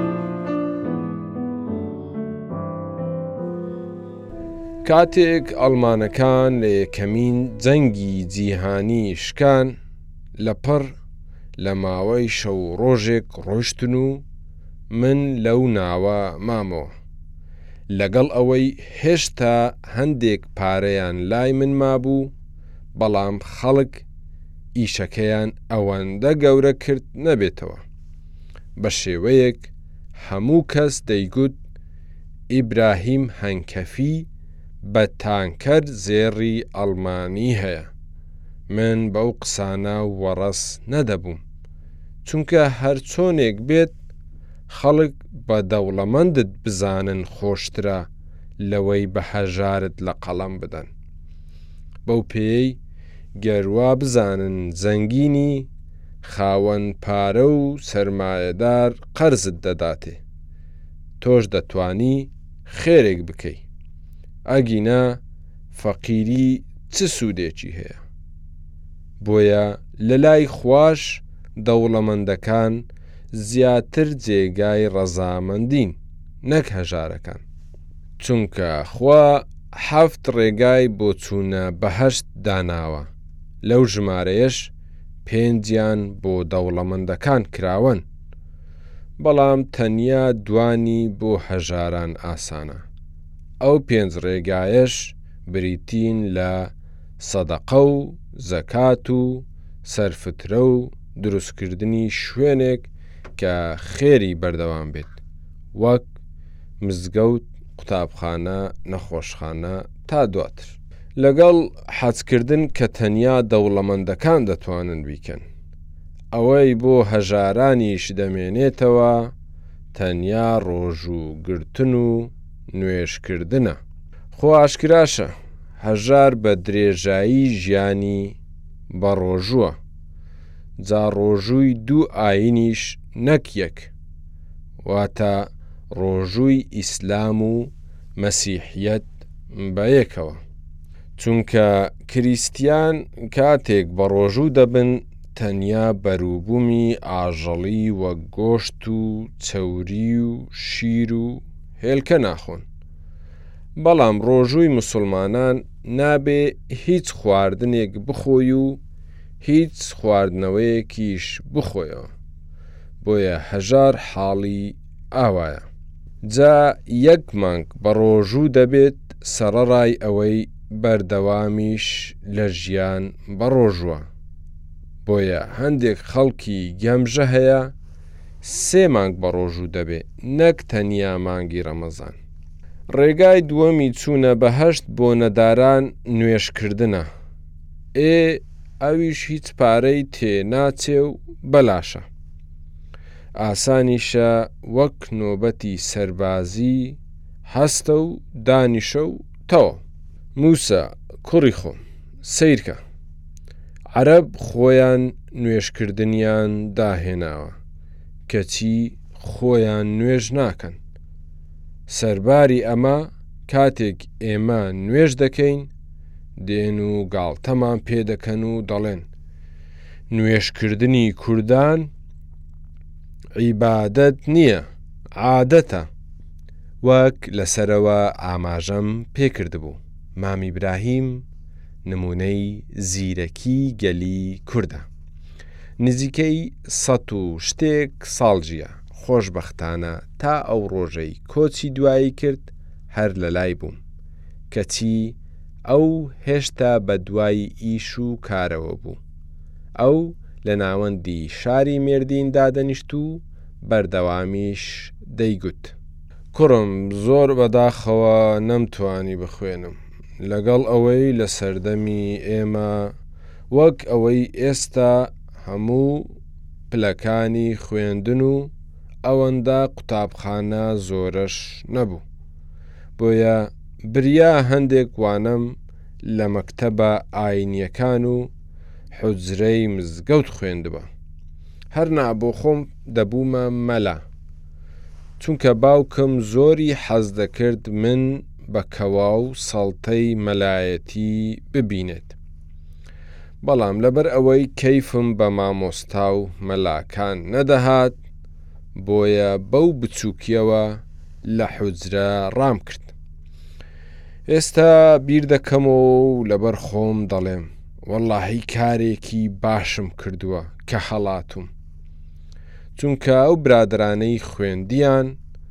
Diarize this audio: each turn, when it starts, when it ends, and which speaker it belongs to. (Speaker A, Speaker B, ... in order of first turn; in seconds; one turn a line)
Speaker A: 4.8-9.8
Speaker A: 10.4-11.0
Speaker A: 11.6-14.2
Speaker A: 14.9-16.9
Speaker A: 17.9-22.3
Speaker A: 22.9-24.1
Speaker A: 24.8-27.8
Speaker A: 28.8-31.6
Speaker A: 32.5-34.3
Speaker A: 34.8-37.9
Speaker A: 38.7-41.4
Speaker A: 42.2-43.9
Speaker A: 44.7-48.1
Speaker A: 48.6-50.9
Speaker A: 52.1-52.8
Speaker A: 53.4-55.7
Speaker A: 56.2-60.2
Speaker A: 61.2-63.6
Speaker A: 64.5-65.2
Speaker A: 65.7-68.0
Speaker A: 69.2-77.4
Speaker A: 78.2-83.1
Speaker A: 83.6-84.7
Speaker A: 85.2-88.0
Speaker A: 89.2-92.8
Speaker A: 93.6-105.2
Speaker A: 105.7-106.1
Speaker A: 106.8-115.4
Speaker A: 116.3-119.3
Speaker A: 119.9-123.8
Speaker A: 124.3-128.4
Speaker A: 128.9-129.8
Speaker A: 130.8-133.9
Speaker A: 134.8-140.4
Speaker A: 141.2-152.7
Speaker A: 153.8-158.8
Speaker A: 159.4-162.1
Speaker A: 163.0-165.7
Speaker A: 166.2-174.1
Speaker A: 175.0-177.7
Speaker A: 178.4-182.2
Speaker A: 182.9-187.1
Speaker A: 187.9-192.1
Speaker A: 193.4-199.8
Speaker A: 200.3-202.8
Speaker A: 203.9-207.6
Speaker A: 208.3-210.8
Speaker A: 211.9-215.7
Speaker A: 216.4-219.1
Speaker A: 220.1-221.9
Speaker A: 223.4-225.9
Speaker A: 226.8-231.3
Speaker A: 231.8-234.9
Speaker A: 235.8-243.8
Speaker A: 244.5-249.0
Speaker A: 249.8-255.8
Speaker A: 256.3-262.9
Speaker A: 263.5-266.2
Speaker A: 266.7-268.5
Speaker A: 269.0-272.0
Speaker A: 273.0-278.3
Speaker A: 278.9-280.9
Speaker A: 281.7-284.0
Speaker A: 285.2-292.2
Speaker A: 293.4-298.0
Speaker A: 298.8-302.9
Speaker A: 304.3-311.5
Speaker A: 312.8-315.2